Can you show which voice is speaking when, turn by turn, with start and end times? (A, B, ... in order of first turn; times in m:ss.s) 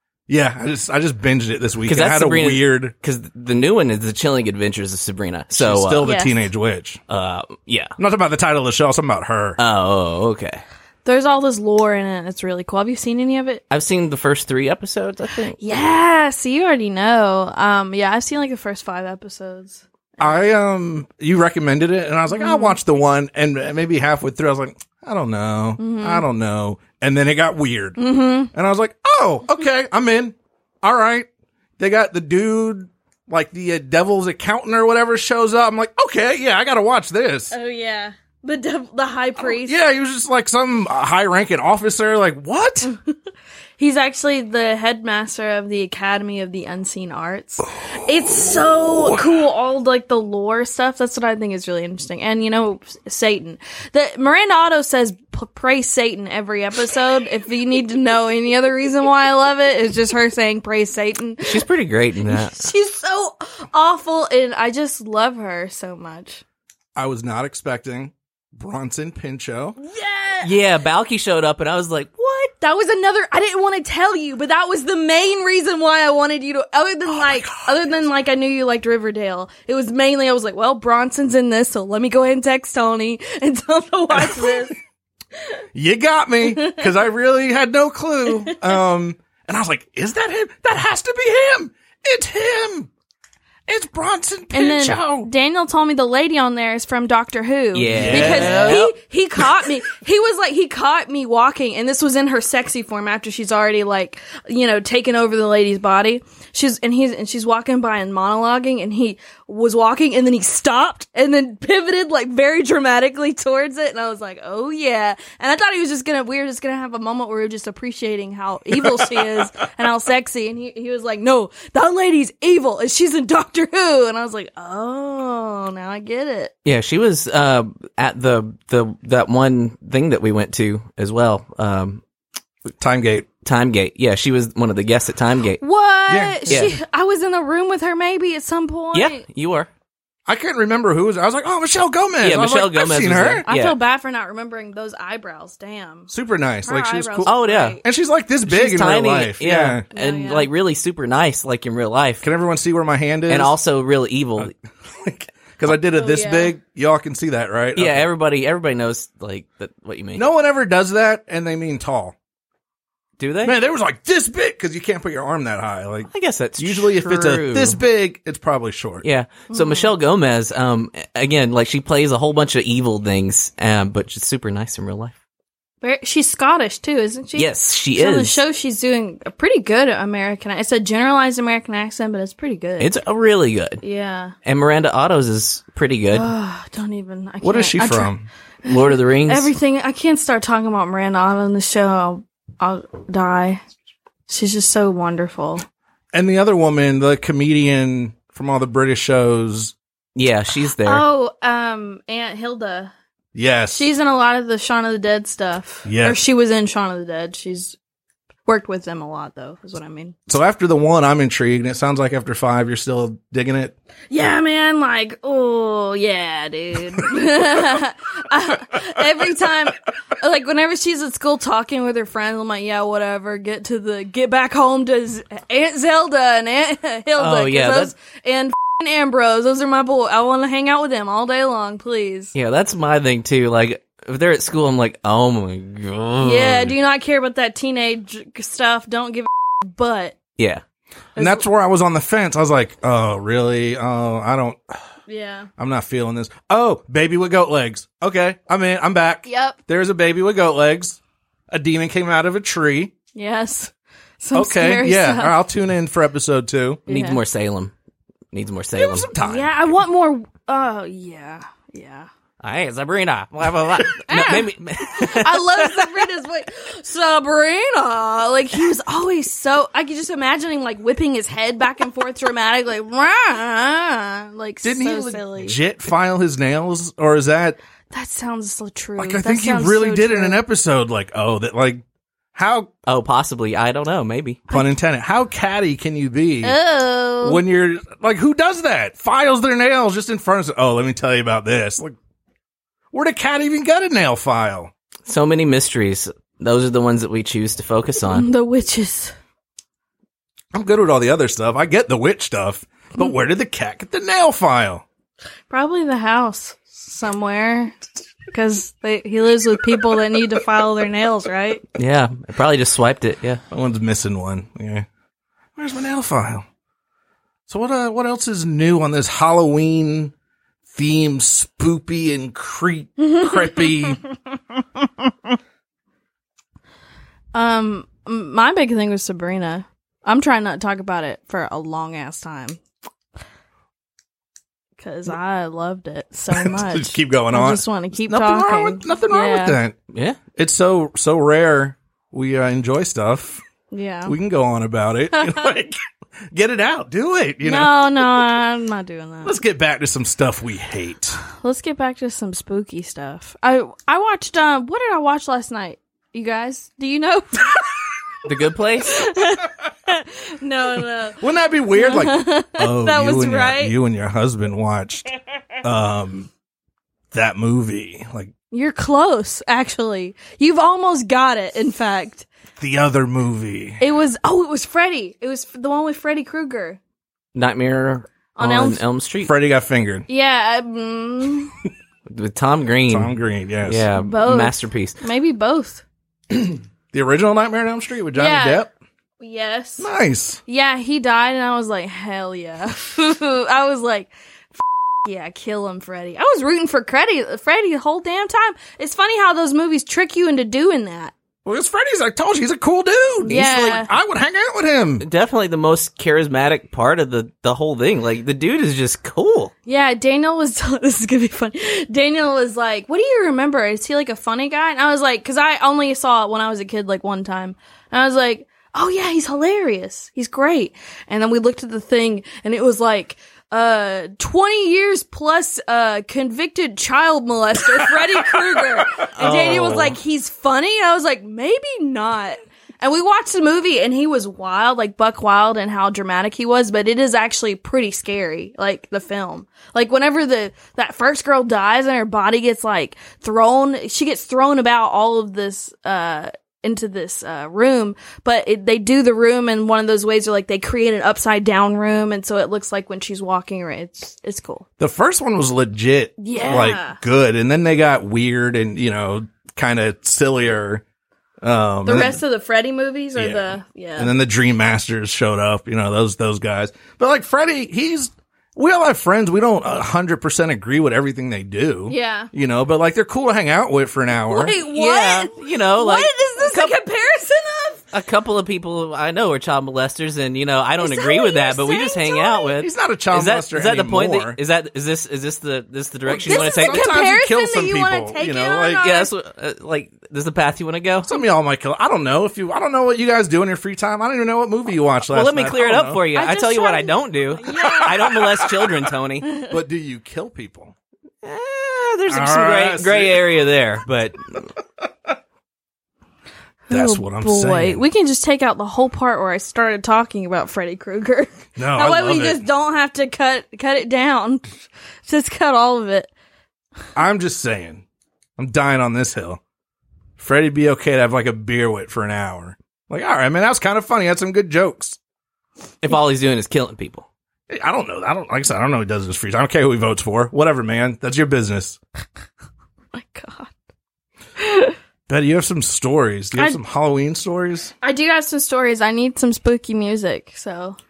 0:00.3-0:02.9 A
0:01.8-0:06.1 B
0:05.5-0:07.0 A
0:06.0-0:06.3 C
0:07.1-0:07.9 B
0:08.0-0:09.6 A
0:09.6-0:10.6 B
0:11.0-0:13.6 C
0:13.7-0:15.6 B
0:15.6-0:20.3 C
0:20.2-0:28.0 A
0:22.3-0:22.8 C
0:25.8-0:26.2 C
0:28.0-0:28.5 C
0:28.5-0:31.3 A
0:31.8-0:37.5 A
0:37.5-0:39.8 C
0:39.4-0:42.9 A
0:42.8-0:43.1 C
0:43.8-1:01.6 C
1:01.4-1:02.6 B
1:02.3-1:06.4 C
1:07.0-1:09.8 A
1:09.8-1:10.5 C
1:10.4-1:12.4 B
1:12.3-1:24.8 C
1:17.1-1:17.7 A
1:24.2-1:24.6 A
1:25.7-1:32.9 A
1:26.4-1:26.9 C
1:33.7-1:35.3 A
1:34.5-2:06.5 C
1:37.7-1:38.9 B
1:37.8-1:38.8 A
1:58.8-1:59.3 A
2:06.6-2:12.0 B
2:12.8-2:13.3 A
2:13.4-2:15.6 B
2:15.6-2:19.2 C
2:16.1-2:16.7 A
2:16.5-2:16.7 B
2:18.9-2:19.7 B
2:20.3-2:23.4 A
2:22.2-2:23.8 B
2:23.5-2:26.1 C
2:26.1-2:29.8 A
2:26.6-2:27.8 C
2:27.2-2:27.8 B
2:28.5-2:32.2 B
2:29.9-2:30.5 C
2:32.2-2:33.5 A
2:33.3-2:34.5 B
2:34.4-2:38.1 A
2:35.8-2:36.5 C
2:37.8-2:40.2 B
2:40.2-2:42.2 A
2:43.2-2:43.5 B
2:43.4-2:49.0 A
2:46.1-2:47.8 B
2:49.0-2:55.2 B
2:49.5-2:49.9 C
2:55.8-3:02.9 C
2:57.4-2:58.4 B
3:02.8-3:03.8 B
3:03.8-3:04.3 C
3:04.4-3:06.3 B
3:06.1-3:08.1 C
3:07.4-3:08.3 A
3:08.6-3:09.5 B
3:08.6-3:13.6 C
3:14.3-3:15.6 C
3:16.1-3:19.7 A
3:20.2-3:21.0 B
3:20.8-3:22.9 C
3:23.3-3:23.8 A
3:23.7-3:27.8 C
3:25.8-3:26.2 A
3:28.5-3:30.2 C
3:30.3-3:33.7 A
3:34.1-3:52.3 C
3:47.2-3:47.9 B
3:52.3-3:56.7 B
3:56.2-4:00.2 C
4:00.4-4:00.6 B
4:01.2-4:01.4 C
4:01.2-4:04.7 A
4:05.1-4:05.5 C
4:05.6-4:11.0 A
4:09.2-4:09.6 C
4:11.5-4:12.9 A
4:13.1-4:15.4 C
4:14.3-4:16.8 A
4:16.9-4:17.2 C
4:16.9-4:17.7 B
4:18.3-4:19.1 B
4:18.7-4:19.5 A
4:19.2-4:22.1 C
4:22.4-4:26.0 B
4:24.1-4:35.6 C
4:34.6-4:37.6 A
4:37.9-4:40.4 C
4:39.0-4:41.8 A
4:42.3-4:42.7 A
4:42.8-4:44.4 B
4:44.5-4:46.6 A
4:46.4-4:47.4 C
4:47.2-4:52.0 A
4:52.9-4:54.7 A
4:55.0-4:58.3 B
4:58.1-4:59.1 C
5:00.5-5:04.8 A
5:05.5-5:07.8 C
5:08.3-5:11.6 C
5:11.8-5:13.4 B
5:13.5-5:14.9 A
5:15.6-5:16.4 A
5:17.5-5:20.1 A
5:20.7-5:24.0 A
5:23.0-5:23.7 C
5:27.3-5:32.6 C
5:34.8-5:39.6 C
5:36.3-5:39.8 A
5:39.9-5:40.2 B
5:40.3-5:43.4 A
5:43.7-5:44.1 C
5:44.0-5:45.8 A
5:46.3-5:48.2 A
5:47.4-5:49.4 C
5:49.2-5:51.2 A
5:51.3-5:57.6 C
5:58.2-5:59.0 B
5:58.8-6:01.2 C
6:01.2-6:05.1 A
6:01.7-6:03.7 C
6:05.6-6:06.3 A
6:07.1-6:08.3 A
6:08.5-6:12.3 C
6:12.6-6:13.8 A
6:13.8-6:16.8 C
6:17.3-6:19.3 B
6:18.3-6:18.8 C
6:19.2-6:20.0 A
6:20.1-6:21.5 C
6:22.1-6:23.1 B
6:22.9-6:23.9 A
6:23.6-6:25.0 B
6:24.0-6:25.8 C
6:26.3-6:28.7 A
6:28.1-6:28.7 C
6:29.2-6:29.9 C
6:29.8-6:30.4 A
6:30.5-6:41.1 C
6:41.4-6:45.0 A
6:43.2-6:43.9 C
6:43.3-6:43.5 B
6:45.0-6:49.5 B
6:49.6-7:34.6 C
7:09.2-7:10.0 B
7:34.8-7:40.8 A
7:36.2-7:37.0 C
7:41.4-7:42.2 A
7:41.8-7:44.1 C
7:43.2-7:54.6 A
7:51.9-7:52.3 C
7:54.3-7:57.8 C
7:54.7-7:56.8 B
7:57.9-8:06.9 B
8:00.8-8:02.5 C
8:02.6-8:04.4 A
8:06.1-8:08.9 A
8:06.2-8:09.1 C
8:08.8-8:11.1 B
8:11.0-8:16.0 A
8:15.1-8:19.3 B
8:16.1-8:18.1 C
8:17.6-8:18.7 A
8:19.2-8:19.5 C
8:19.4-8:20.7 A
8:21.2-8:24.4 B
8:22.1-8:23.2 A
8:26.7-8:34.5 C
8:26.7-8:27.8 A
8:31.6-8:32.4 A
8:35.0-8:36.1 C
8:36.9-8:37.8 A
8:38.4-8:39.4 A
8:40.2-8:45.0 A
8:45.8-8:47.1 B
8:47.5-8:51.8 A
8:52.9-8:53.5 C
8:54.4-8:54.7 C
8:55.1-8:57.7 A
8:57.8-9:00.8 C